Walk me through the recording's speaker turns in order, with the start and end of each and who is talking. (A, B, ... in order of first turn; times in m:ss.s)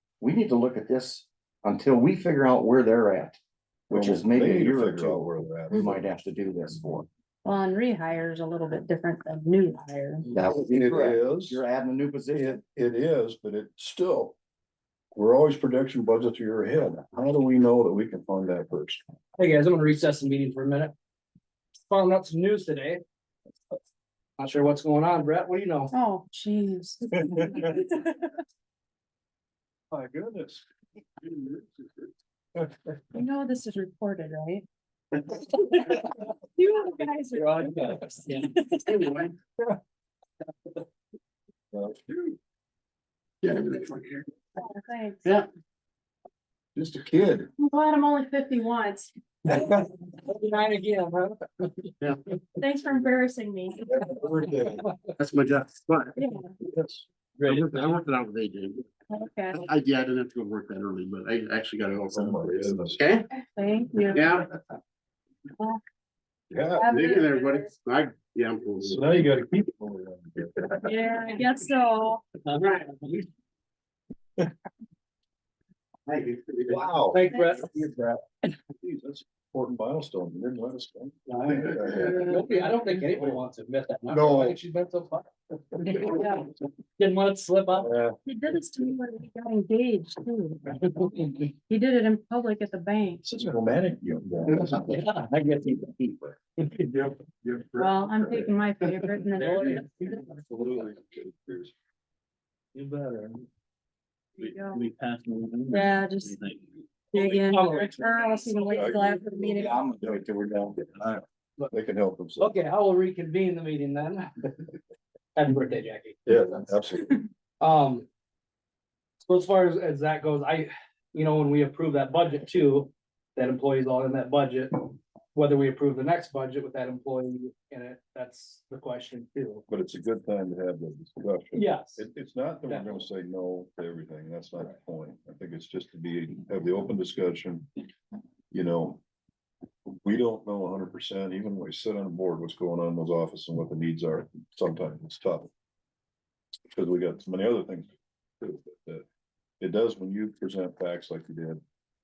0:00.2-0:03.4 A
0:03.9-0:06.1 B
0:03.9-0:07.0 A
0:07.4-0:10.3 C
0:10.3-0:12.6 A
0:10.4-0:11.6 B
0:12.3-0:14.4 B
0:15.1-0:19.0 B
0:19.4-0:20.9 D
0:21.9-0:23.0 D
0:24.4-0:25.9 D
0:25.9-0:28.3 C
0:27.1-0:27.8 B
0:29.9-0:30.6 B
0:33.1-0:34.6 C
0:35.6-0:35.9 C
0:36.6-0:39.0 C
0:37.4-0:38.5 D
0:38.9-0:39.3 E
0:41.7-0:42.4 B
0:43.4-0:44.2 E
0:44.6-0:45.3 C
0:46.8-0:47.5 B
0:47.6-0:49.1 C
0:49.6-0:51.9 D
0:52.6-0:53.9 C
0:53.8-0:54.8 B
0:55.2-0:56.1 E
0:56.2-0:56.5 C
0:56.6-0:57.0 B
0:57.4-0:57.9 D
0:57.4-0:58.8 E
0:59.1-0:59.6 C
0:59.5-1:03.3 E
1:02.1-1:03.0 B
1:03.3-1:04.4 C
1:04.1-1:04.5 E
1:06.5-1:07.0 B
1:06.7-1:07.7 C
1:06.9-1:09.1 E
1:08.8-1:10.9 B
1:10.8-1:12.2 C
1:12.4-1:13.2 D
1:12.6-1:12.9 E
1:16.1-1:16.8 E
1:16.6-1:22.4 B
1:17.1-1:17.9 D
1:17.3-1:17.6 C
1:21.3-1:25.3 D
1:24.1-1:24.6 B
1:25.8-1:26.4 D
1:26.1-1:26.3 C
1:27.0-1:27.9 D
1:27.8-1:28.2 B
1:28.2-1:30.8 C
1:30.8-1:31.4 D
1:31.7-1:33.2 C
1:33.2-1:34.7 B
1:34.3-1:36.4 A
1:36.8-1:38.5 B
1:37.8-1:40.3 C
1:39.4-1:40.3 D
1:39.4-1:41.7 B
1:42.7-1:43.4 D
1:44.4-1:44.8 C
1:45.7-1:46.4 C
1:47.1-1:48.0 D
1:47.1-1:49.8 C
1:48.7-1:50.2 B
1:49.5-1:50.9 A
1:51.7-1:52.6 B
1:52.4-1:54.5 D
1:55.3-1:56.2 D
1:56.3-1:57.2 B
1:57.6-1:58.0 D
1:59.2-2:09.6 D
2:09.7-2:17.7 B
2:11.5-2:12.1 D
2:12.7-2:13.0 D
2:18.5-2:19.0 B
2:20.0-2:25.5 B
2:26.7-2:29.0 B
2:29.6-2:31.6 B